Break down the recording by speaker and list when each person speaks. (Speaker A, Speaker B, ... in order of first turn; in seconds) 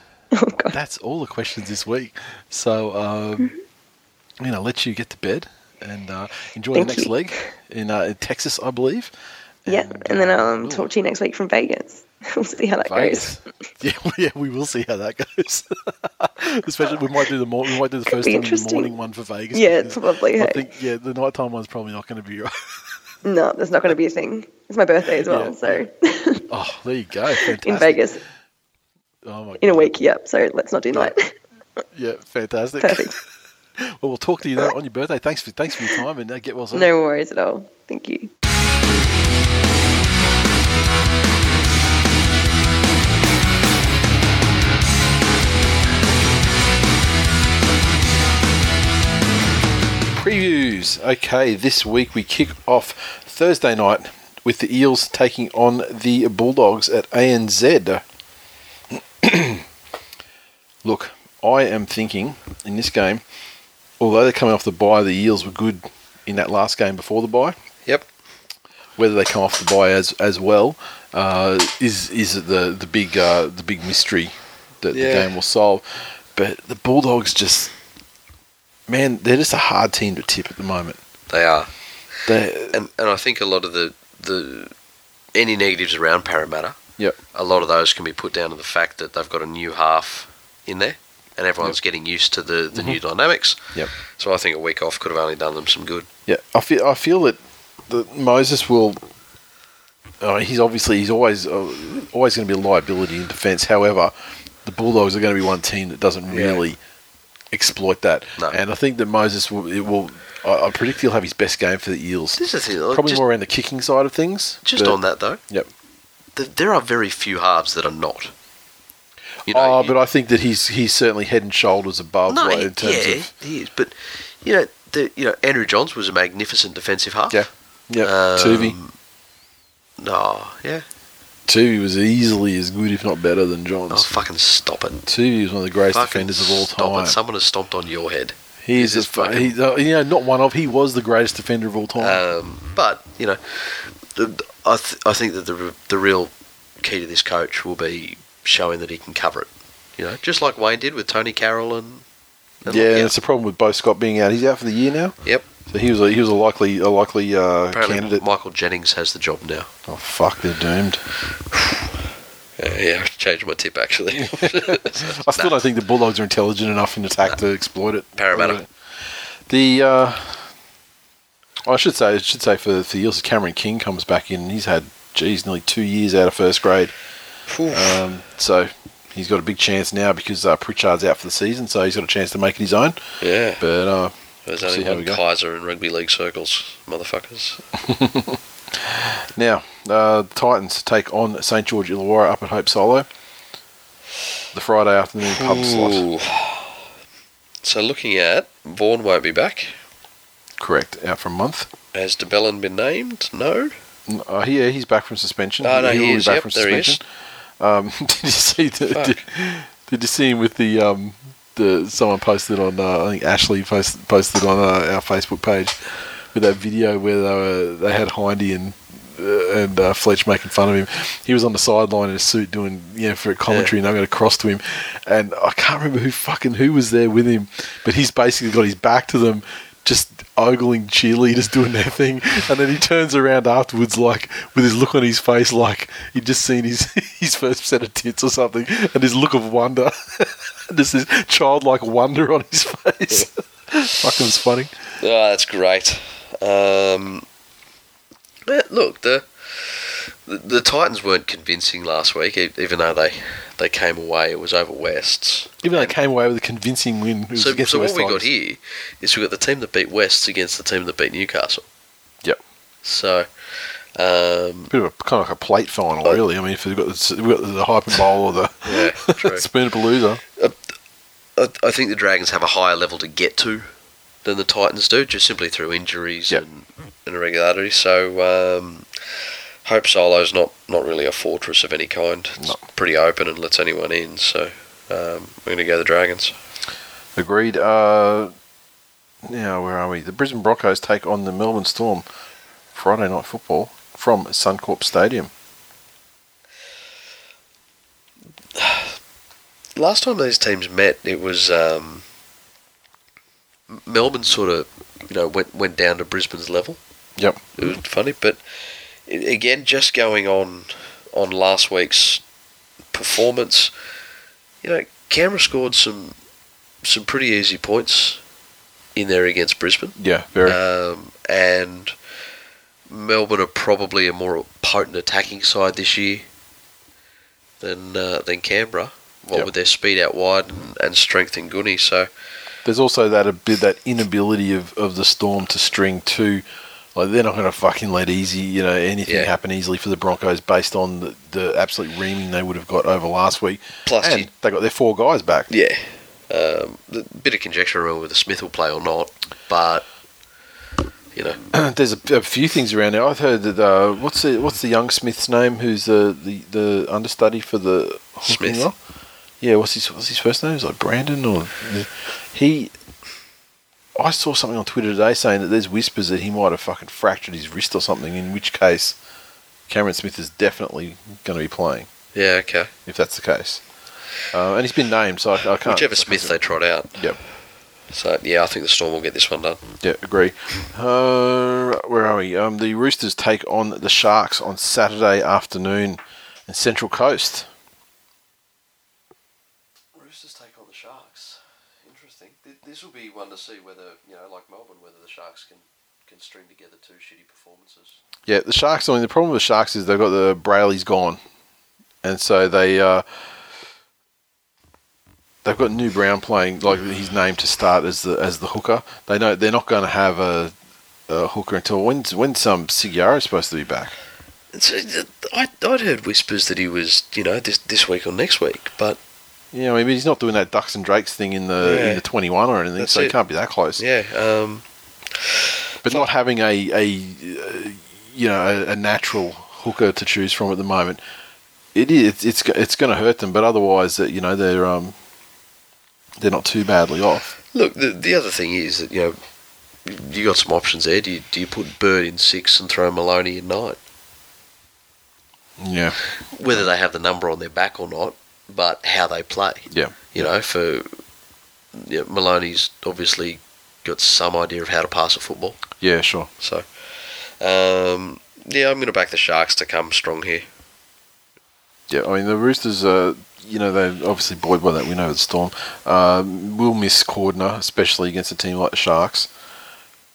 Speaker A: 0.3-0.8, 6.7-7.5, 9.7-13.3, 18.1-18.9, 19.5-20.6, 23.2-26.4, 27.4-28.2, 29.6-31.4, 32.8-33.1, 36.7-38.3
Speaker B: 0.7-3.5, 4.4-9.1, 9.6-10.9, 12.8-22.8, 25.2-25.8, 26.5-28.2, 29.2-29.9, 31.9-33.2, 33.8-36.9, 50.1-58.0, 58.9-59.6, 60.8-63.2, 64.0-67.5, 69.0-77.7, 78.9-81.0, 82.2-82.8, 96.3-99.0, 100.2-104.1, 104.6-106.8, 107.5-115.7, 119.5-123.3, 127.3-128.8, 131.5-134.1, 135.1-137.2, 138.6-142.2, 152.7-158.2, 159.9-161.0, 164.2-168.7, 169.5-170.5, 171.7-176.9, 177.7-183.0, 183.6-185.2, 187.8-193.1, 194.5-196.0, 200.6-201.7, 204.1-207.0, 207.6-215.8, 216.3-244.7, 255.6-258.3, 264.7-270.2, 287.1-288.3, 289.3-292.1, 292.7-295.3, 307.2-307.4, 320.0-320.6, 332.6-336.4, 336.9-345.5, 351.5-358.7, 359.4-362.7, 363.9-368.9, 369.7-371.9, 372.9-373.6, 374.3-376.4, 379.8-387.5, 398.2-401.2, 402.0-403.0, 405.4-410.5, 411.1-413.9, 419.5-423.8, 425.8-431.0, 431.7-434.9, 436.2-437.3, 445.6-446.0, 449.7-450.3, 455.8-456.3, 461.9-469.3
Speaker C: 74.9-75.3, 81.3-81.7, 82.7-84.7, 85.3-86.8, 87.3-96.1, 106.3-106.6, 112.3-113.2, 114.6-115.4, 116.3-118.3, 119.5-119.9, 122.3-127.4, 128.0-128.9, 130.0-130.8, 133.9-135.1, 135.9-139.6, 142.0-152.0, 152.6-153.1, 157.7-159.7, 161.5-161.9, 162.6-165.6, 168.1-168.6, 177.5-178.0, 183.2-183.6, 184.4-187.6, 195.2-196.7, 197.6-199.8, 201.9-203.7, 205.6-207.0, 208.9-209.2, 223.5-223.7, 245.0-247.2, 248.4-255.9, 257.3-261.6, 262.8-264.7, 268.6-269.5, 271.4-273.7, 274.2-286.3, 298.6-299.0, 299.7-302.0, 303.7-306.8, 307.6-308.4, 309.1-312.2, 312.9-313.7, 314.6-316.1, 316.8-318.2, 318.9-321.9, 322.9-326.3, 327.6-332.1, 339.1-339.3, 343.9-344.3, 345.5-349.8, 351.1-351.4, 358.2-358.7, 372.1-372.7, 375.6-377.0, 377.9-379.6, 389.9-398.0, 414.5-419.0, 421.6-422.0, 422.8-423.1, 423.8-424.6, 425.1-426.1, 437.5-439.1, 439.8-443.8, 446.3-450.9, 451.7-455.6, 456.4-460.5